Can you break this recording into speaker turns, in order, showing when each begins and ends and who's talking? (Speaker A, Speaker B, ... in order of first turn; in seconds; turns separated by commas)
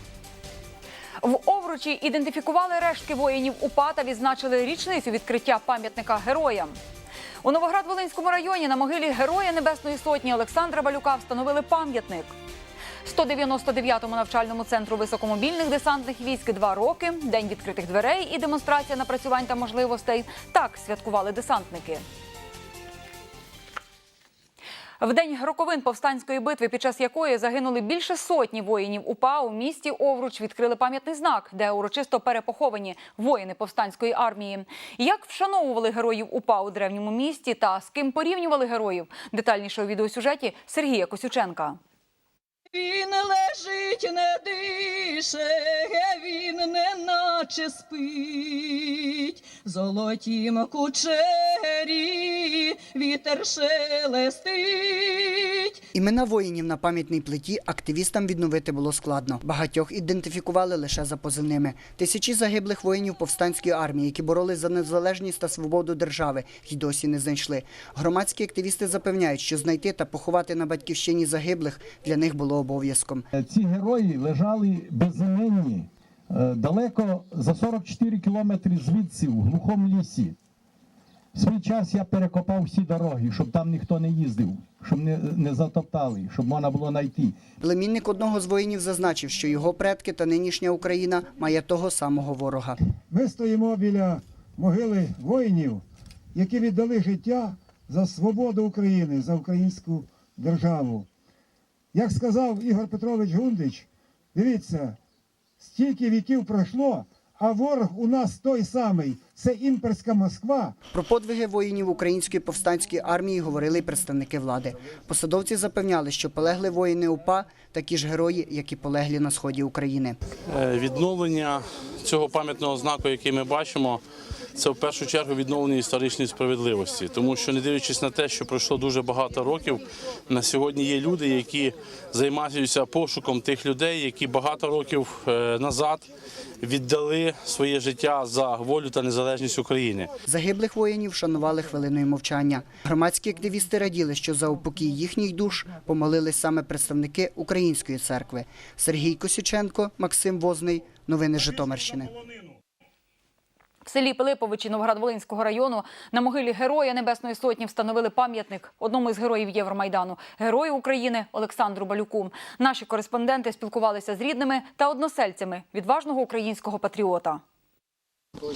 Speaker A: 1.2-6.8, Speaker A: 7.4-12.3, Speaker A: 13.1-22.0, Speaker A: 25.0-41.8, Speaker B: 42.8-55.7, Speaker C: 55.9-73.2, Speaker D: 73.3-80.4, Speaker D: 81.3-87.4, Speaker C: 87.6-92.8, Speaker E: 93.1-95.8, Speaker E: 96.4-101.1, Speaker E: 102.0-103.9, Speaker E: 104.4-105.0, Speaker E: 105.8-110.7, Speaker C: 110.9-120.2, Speaker F: 120.5-124.0, Speaker F: 124.6-136.1, Speaker F: 136.6-140.1, Speaker C: 140.3-152.2, Speaker A: 153.9-167.4